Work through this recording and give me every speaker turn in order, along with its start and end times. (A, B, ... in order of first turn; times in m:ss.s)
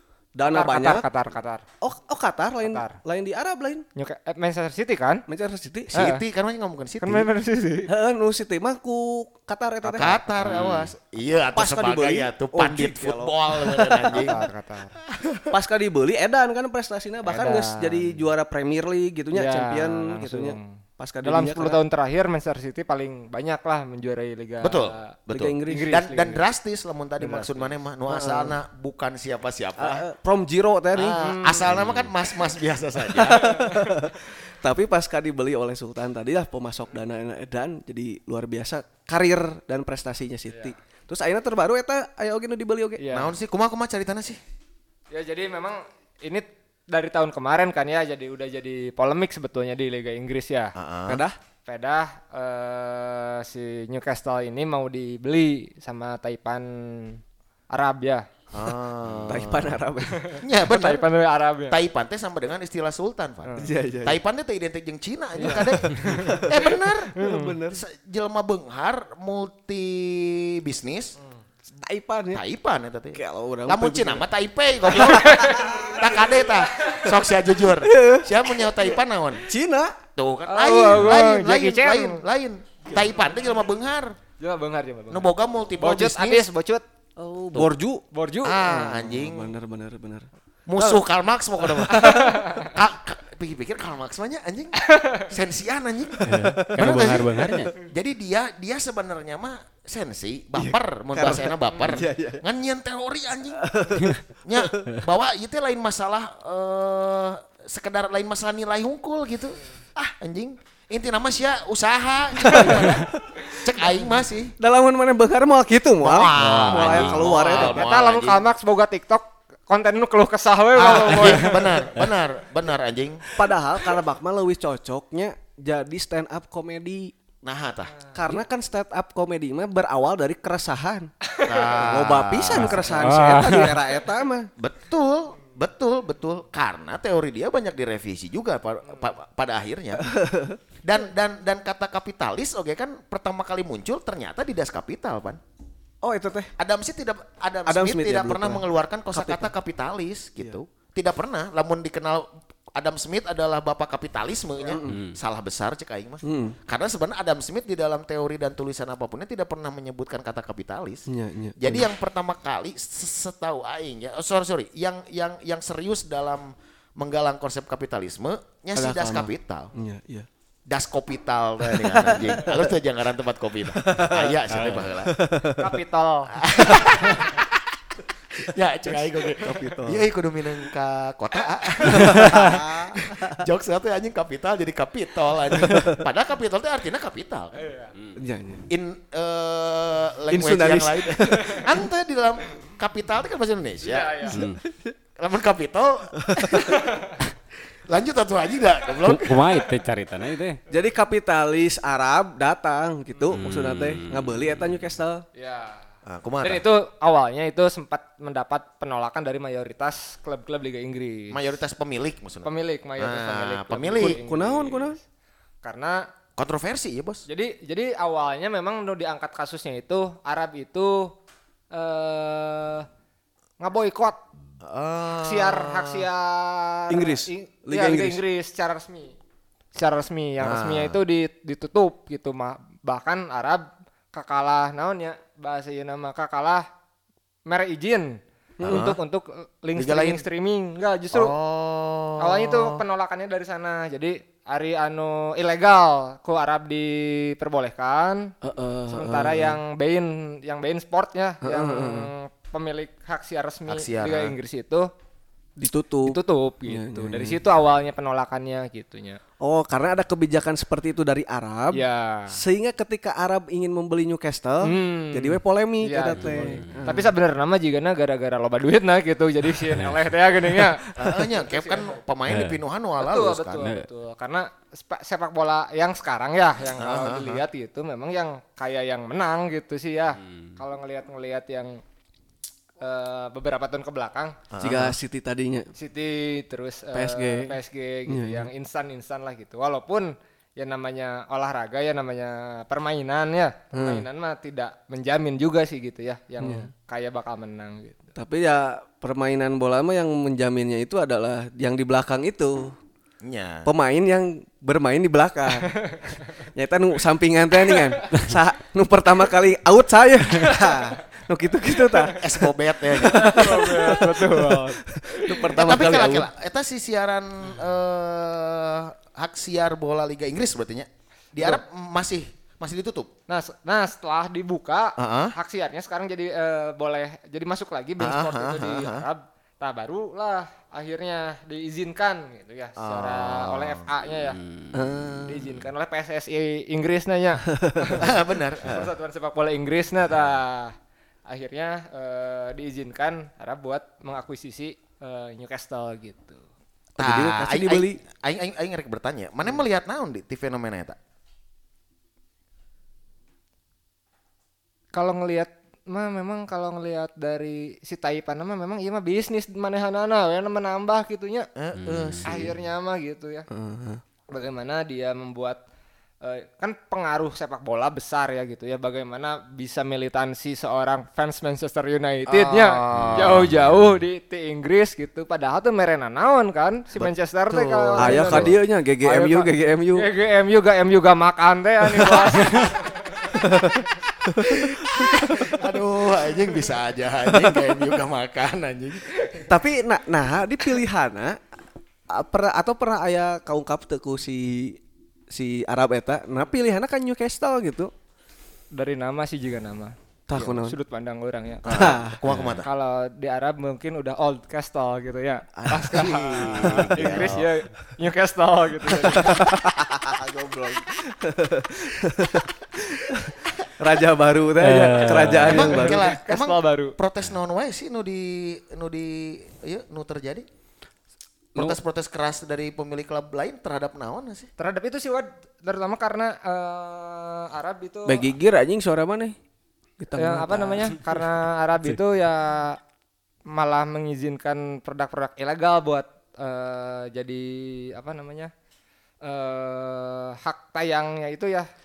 0:00.4-0:01.1 A
0:00.5-0:01.6 B
0:01.8-0:03.8 A
0:02.6-0:03.0 B
0:04.0-0:05.2 B
0:05.3-0:05.9 A
0:05.9-0:07.3 C
0:05.9-0:06.2 B
0:07.0-0:07.9 B
0:07.9-0:10.2 A
0:09.8-0:10.6 B
0:10.0-0:14.4 C
0:10.4-0:10.9 D
0:11.5-0:14.3 A
0:14.1-0:14.9 B
0:15.0-0:15.5 C
0:15.5-0:21.8 A
0:17.2-0:18.2 B
0:19.3-0:20.7 B
0:21.2-0:25.1 B
0:24.6-0:30.0 C
0:25.3-0:26.4 A
0:25.7-0:26.2 B
0:27.2-0:27.5 A
0:28.1-0:28.6 A
0:29.8-0:31.2 A
0:30.9-0:33.5 C
0:31.1-0:31.7 B
0:31.7-0:32.1 D
0:33.1-0:43.0 A
0:33.3-0:34.1 B
0:43.0-0:43.3 B
0:43.1-0:44.4 C
0:45.1-0:50.7 B
0:50.7-0:51.2 C
0:51.1-0:51.4 A
0:51.6-0:58.3 B
0:58.5-0:59.8 C
0:59.2-1:00.2 A
1:00.1-1:01.8 B
1:00.4-1:01.1 C
1:01.7-1:07.2 C
1:03.4-1:03.7 B
1:03.6-1:04.2 A
1:05.4-1:06.5 B
1:05.4-1:07.8 A
1:07.1-1:07.6 B
1:07.7-1:11.2 C
1:11.8-1:12.4 A
1:12.3-1:19.5 C
1:13.1-1:14.2 A
1:15.0-1:15.8 B
1:17.7-1:18.6 A
1:19.4-1:20.0 A
1:20.2-1:24.2 C
1:20.5-1:22.2 B
1:24.4-1:26.8 B
1:25.1-1:26.5 C
1:27.2-1:28.0 A
1:28.1-1:29.0 B
1:28.4-1:29.5 C
1:28.7-1:30.3 A
1:30.7-1:43.6 C
1:31.9-1:32.7 B
1:32.0-1:32.2 A
1:34.8-1:35.3 B
1:36.2-1:37.7 D
1:36.2-1:37.7 A
1:40.6-1:42.4 A
1:43.6-1:44.2 A
1:44.4-1:49.6 C
1:50.1-1:54.5 C
1:52.5-1:53.0 A
1:54.6-1:57.9 A
1:56.0-1:58.4 C
1:56.3-1:57.2 D
1:57.4-2:01.9 B
2:00.7-2:03.2 C
2:03.3-2:07.1 A
2:07.4-2:07.9 C
2:08.1-2:11.1 A
2:11.3-2:11.8 B
2:11.4-2:12.9 C
2:11.8-2:14.5 A
2:12.5-2:13.8 D
2:14.6-2:20.0 C
2:20.0-2:20.6 A
2:20.8-2:25.4 C
2:26.0-2:26.5 A
2:26.6-2:41.1 C
2:27.6-2:29.5 A
2:34.6-2:35.0 A
2:34.9-2:35.2 D
2:36.2-2:36.6 A
2:41.1-2:41.9 A
2:41.6-2:49.7 C
2:48.8-2:50.3 A
2:50.7-2:55.2 C
2:51.7-2:52.6 A
2:53.8-2:54.3 A
2:54.5-2:54.9 D
2:55.0-2:55.7 A
2:55.6-2:57.3 B
2:56.3-2:57.6 C
2:58.3-3:07.6 C
2:59.4-3:00.1 A
3:01.8-3:03.4 A
3:05.6-3:06.0 A
3:07.5-3:07.9 B
3:08.2-3:08.6 A
3:08.7-3:14.4 C
3:10.3-3:11.7 A
3:11.4-3:11.7 B
3:13.8-3:14.4 B
3:14.3-3:14.6 D
3:14.5-3:14.9 A
3:15.2-3:17.3 C
3:16.2-3:16.6 A
3:16.6-3:17.2 B
3:17.9-3:19.4 C
3:19.0-3:20.6 D
3:20.7-3:25.2 A
3:23.2-3:23.4 B
3:23.3-3:24.8 D
3:25.3-3:25.8 B
3:26.0-3:26.6 C
3:26.4-3:31.4 B
3:31.3-3:34.2 C
3:32.4-3:34.9 B
3:33.9-3:35.0 A
3:35.6-3:36.1 B
3:36.4-3:37.2 C
3:37.3-3:41.1 B
3:41.7-3:42.9 B
3:43.6-3:44.2 B
3:44.6-3:46.0 C
3:45.2-3:49.1 B
3:46.9-3:48.2 A
3:49.7-3:56.6 B
3:50.4-3:51.0 C
3:57.4-4:01.3 B
3:58.6-3:59.0 A
3:58.6-3:59.0 C
3:59.7-4:00.2 C
4:01.1-4:02.8 C
4:02.2-4:08.3 B
4:08.4-4:09.6 A
4:08.9-4:14.9 B
4:11.4-4:12.1 A
4:13.7-4:14.4 C
4:15.6-4:17.4 A
4:16.0-4:19.2 B
4:19.4-4:27.1 A
4:21.7-4:22.4 B
4:24.6-4:32.0 B
4:26.2-4:26.8 D
4:29.7-4:30.0 D
4:31.0-4:33.7 C
4:32.3-4:32.6 D
4:33.0-4:41.8 B
4:33.6-4:33.9 D
4:36.7-4:37.4 C
4:40.2-4:40.6 D
4:42.8-4:44.4 B
4:44.5-4:45.0 C
4:44.6-4:45.7 A
4:45.8-4:58.1 B
4:46.9-4:47.5 A
4:48.1-4:48.5 A
4:53.7-4:54.0 A
4:56.4-4:56.7 A
4:58.1-5:02.8 A
5:03.2-5:03.7 C
5:03.6-5:05.7 A
5:05.8-5:06.2 B
5:06.5-5:12.3 A
5:10.4-5:10.9 B
5:12.2-5:13.5 C
5:12.9-5:16.3 A
5:13.1-5:15.5 B
5:15.5-5:23.1 C
5:21.4-5:21.6 B
5:23.3-5:34.4 B
5:25.0-5:25.3 C
5:28.0-5:29.1 C
5:32.8-5:33.9 C
5:34.2-5:35.2 D
5:34.7-5:35.5 A
5:35.2-5:40.7 B
5:37.6-5:37.9 A
5:38.0-5:38.9 C
5:41.3-5:46.4 B
5:47.0-5:51.0 C
5:47.0-5:48.0 A
5:54.9-6:01.5 B
6:01.6-6:02.6 C
6:01.8-6:02.3 D
6:02.2-6:03.5 B
6:03.5-6:04.0 A
6:04.3-6:05.6 B
6:06.2-6:23.4 B
6:12.3-6:13.5 C
6:12.9-6:13.5 D
6:17.0-6:18.5 C
6:18.0-6:20.1 A
6:23.3-6:25.0 A
6:24.4-6:29.5 C
6:29.5-6:31.4 A
6:32.1-6:37.9 A
6:38.7-6:42.0 B
6:40.3-6:40.8 A
6:41.6-6:42.7 C
6:41.7-6:42.2 A
6:42.3-6:42.6 D
6:42.6-6:49.6 B
6:45.6-6:47.5 C
6:46.5-6:47.4 D
6:49.0-6:56.1 A
6:54.6-6:55.6 D
6:55.4-6:57.0 B
6:55.4-7:00.4 C
7:01.5-7:04.5 C
7:04.6-7:08.3 B
7:08.0-7:09.4 A
7:10.0-7:11.0 A
7:10.2-7:12.8 B
7:13.5-7:18.5 B
7:19.2-7:21.7 B